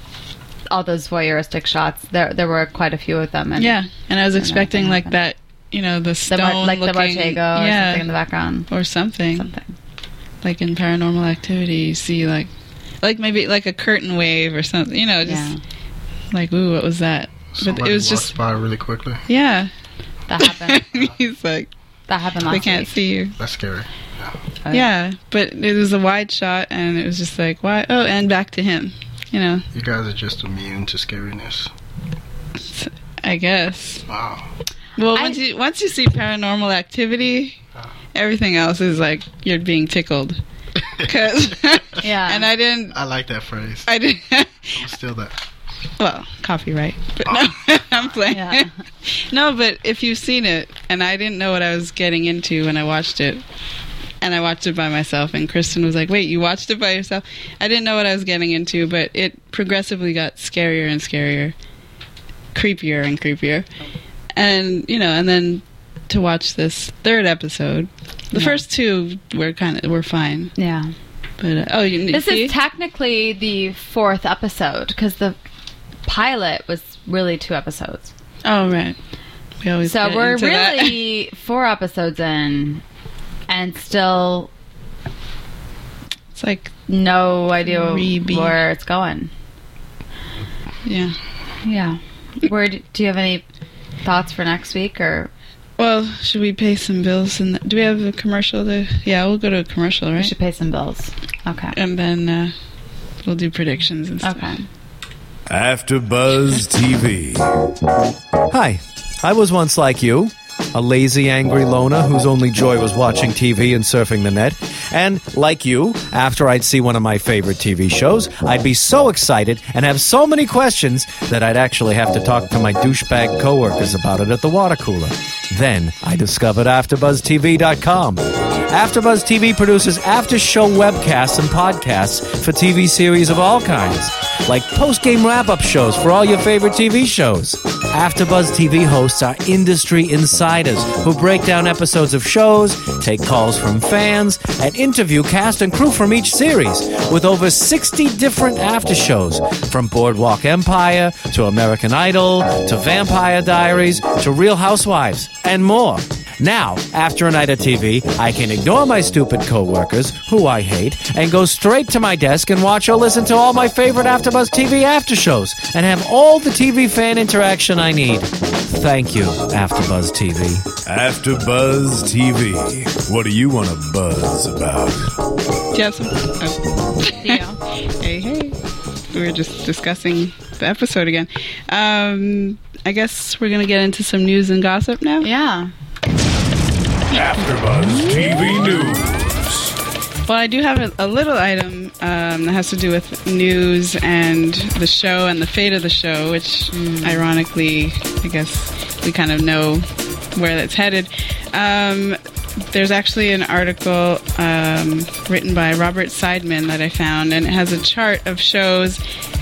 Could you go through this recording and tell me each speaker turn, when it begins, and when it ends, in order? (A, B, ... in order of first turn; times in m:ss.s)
0:00.7-0:03.8 A
0:03.6-0:08.1 B
0:04.3-0:05.1 A
0:06.3-0:08.7 A
0:08.7-0:09.5 B
0:09.3-0:09.7 A
0:10.4-0:12.5 B
0:13.0-0:15.5 B
0:15.2-0:15.6 A
0:16.3-0:18.3 B
0:17.5-0:19.2 C
0:19.3-0:19.7 B
0:20.3-0:20.9 A
0:20.4-0:21.7 B
0:22.1-0:22.9 A
0:22.5-0:23.4 B
0:23.4-0:24.4 C
0:24.6-0:24.9 A
0:24.7-0:29.6 B
0:29.7-0:31.7 C
0:32.6-0:34.0 B
0:34.1-0:34.4 C
0:35.0-0:37.6 B
0:35.1-0:35.4 A
0:38.1-0:40.4 B
0:41.0-0:43.0 B
0:42.0-0:42.5 A
0:42.9-0:43.9 C
0:43.9-0:44.8 B
0:44.7-0:45.4 C
0:46.0-0:53.4 B
0:48.3-0:48.7 A
0:54.2-1:01.6 B
1:02.5-1:03.7 B
1:04.3-1:10.5 B
1:08.3-1:08.6 A
1:10.6-1:10.9 A
1:11.4-1:12.5 B
1:12.1-1:15.4 A
1:16.0-1:18.1 A
1:18.4-1:19.0 B
1:19.6-1:21.0 B
1:19.8-1:22.8 A
1:23.5-1:24.5 A
1:26.3-1:26.7 B
1:26.9-1:29.3 A
1:27.6-1:28.6 B
1:30.8-1:31.1 B
1:31.6-1:33.4 A
1:34.0-1:35.3 A
1:35.8-1:40.3 B
1:40.2-1:41.8 A
1:41.7-1:42.5 B
1:43.2-1:44.6 B
1:44.2-1:44.6 A
1:45.5-1:47.7 D
1:48.5-2:50.7 E
2:50.8-2:55.2 D
2:55.7-2:57.4 B
2:57.0-2:57.6 A
2:58.0-2:58.6 B
2:59.1-3:05.3 B
3:05.2-3:05.7 A
3:07.1-3:09.7 D
3:10.2-3:22.2 B
3:16.7-3:17.2 A
3:22.7-3:29.0 B